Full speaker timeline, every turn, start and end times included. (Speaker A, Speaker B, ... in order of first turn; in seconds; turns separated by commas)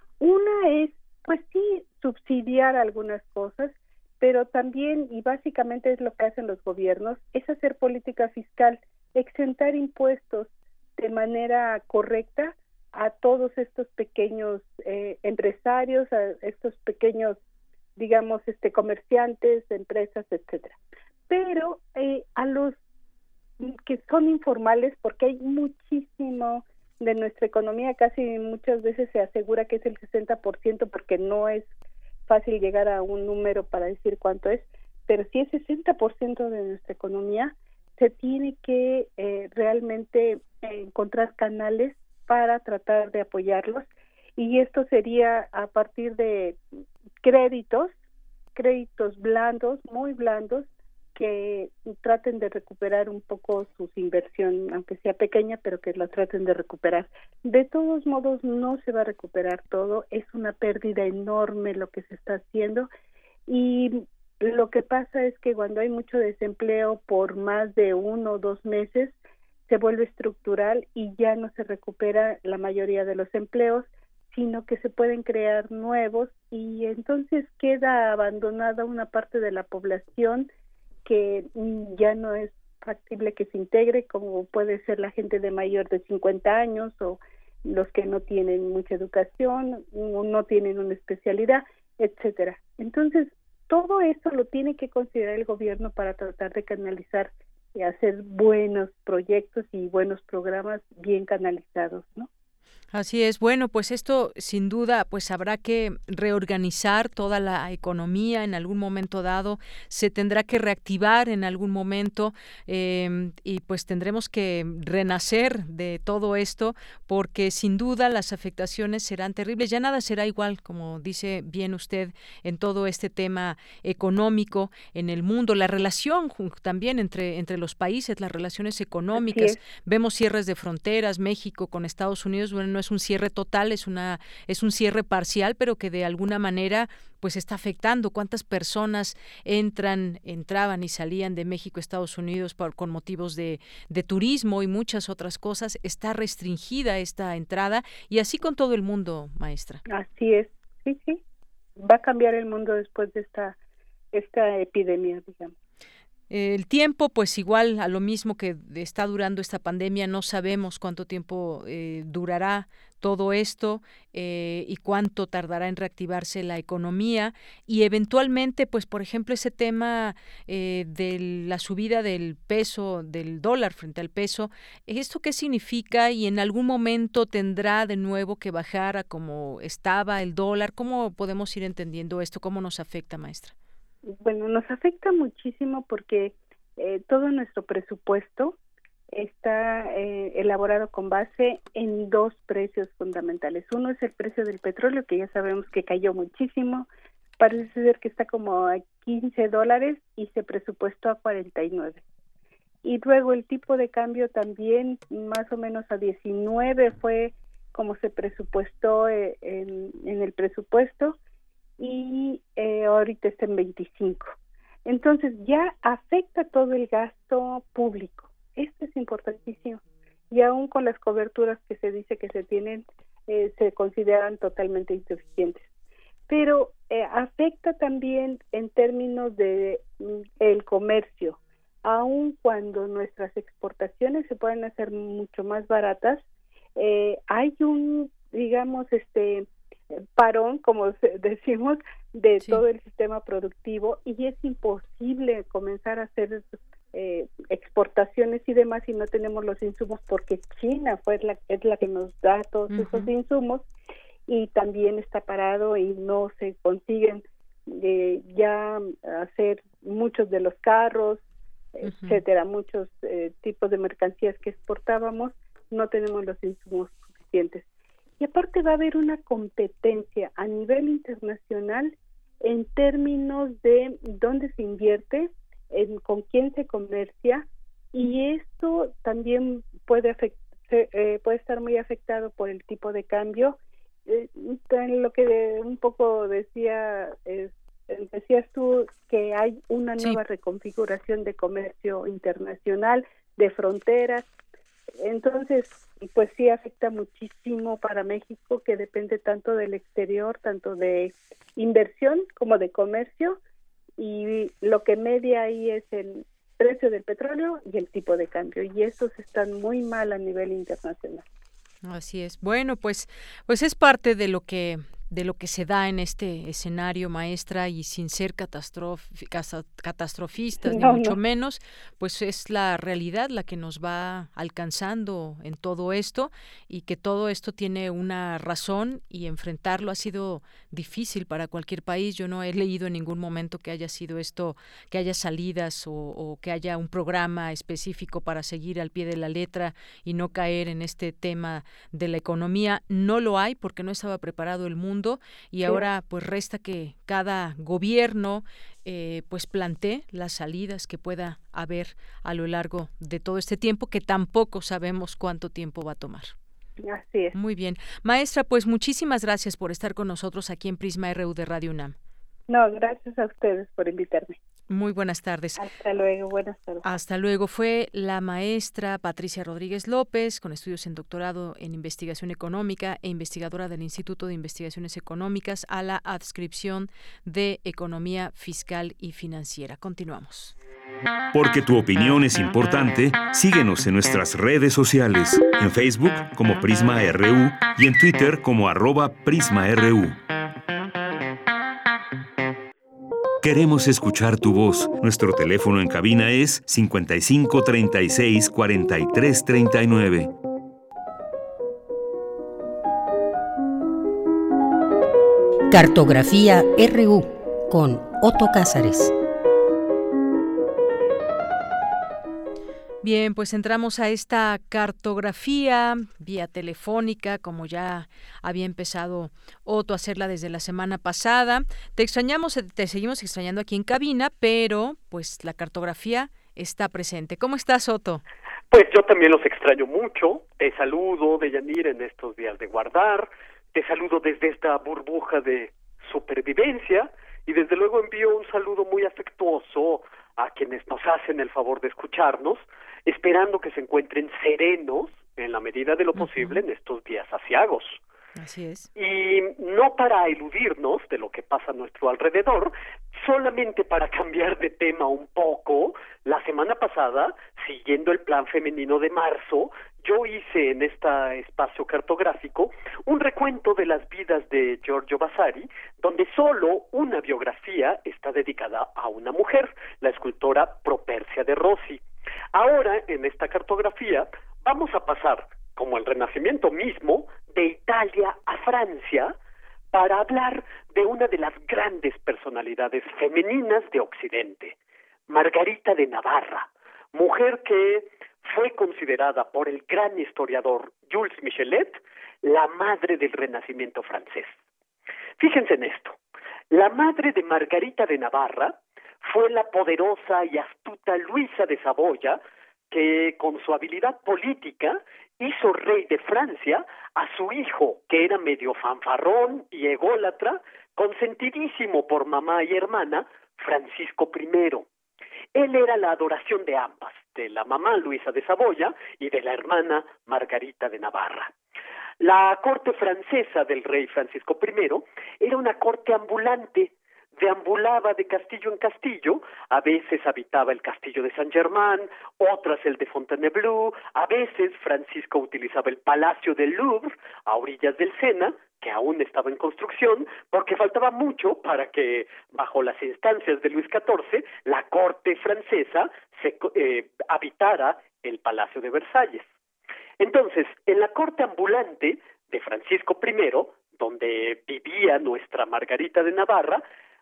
Speaker A: 0.2-17.4, Speaker A: 18.0-20.8, Speaker A: 21.3-22.7, Speaker A: 23.6-31.7, Speaker A: 32.3-43.8, Speaker A: 44.4-46.6, Speaker A: 47.2-47.9, Speaker A: 48.5-62.9, Speaker A: 63.5-69.1, Speaker A: 69.7-80.5, Speaker A: 81.0-102.3, Speaker B: 102.9-149.8, Speaker A: 129.1-129.6, Speaker A: 149.9-151.2, Speaker A: 151.8-153.6, Speaker A: 154.1-155.5, Speaker B: 156.3-183.5, Speaker A: 184.1-188.6, Speaker A: 189.1-196.9, Speaker A: 197.4-202.0, Speaker A: 202.8-211.2, Speaker A: 211.8-214.3, Speaker A: 214.8-219.8, Speaker A: 220.3-225.7, Speaker A: 226.3-236.2, Speaker A: 236.8-239.5, Speaker A: 240.2-253.6, Speaker B: 252.7-253.1, Speaker A: 254.3-261.2, Speaker A: 261.8-267.6, Speaker B: 261.9-262.2, Speaker A: 268.2-294.2, Speaker A: 295.0-303.4, Speaker A: 304.0-311.2, Speaker B: 311.8-356.3, Speaker A: 320.6-321.2, Speaker A: 356.8-357.3, Speaker B: 357.3-361.9, Speaker A: 362.5-364.4, Speaker B: 364.7-365.6, Speaker A: 365.6-366.8, Speaker B: 366.8-380.5, Speaker C: 381.3-390.2, Speaker C: 393.4-400.3, Speaker D: 405.7-409.1, Speaker B: 413.0-428.2, Speaker E: 428.7-448.0, Speaker B: 446.2-446.6, Speaker B: 448.4-448.9, Speaker E: 448.9-472.0, Speaker E: 472.5-479.3, Speaker E: 479.9-484.7, Speaker E: 485.3-494.6, Speaker E: 495.4-496.2, Speaker E: 496.7-502.4, Speaker E: 502.9-514.8, Speaker E: 515.5-521.5, Speaker E: 522.2-549.5, Speaker E: 550.2-556.8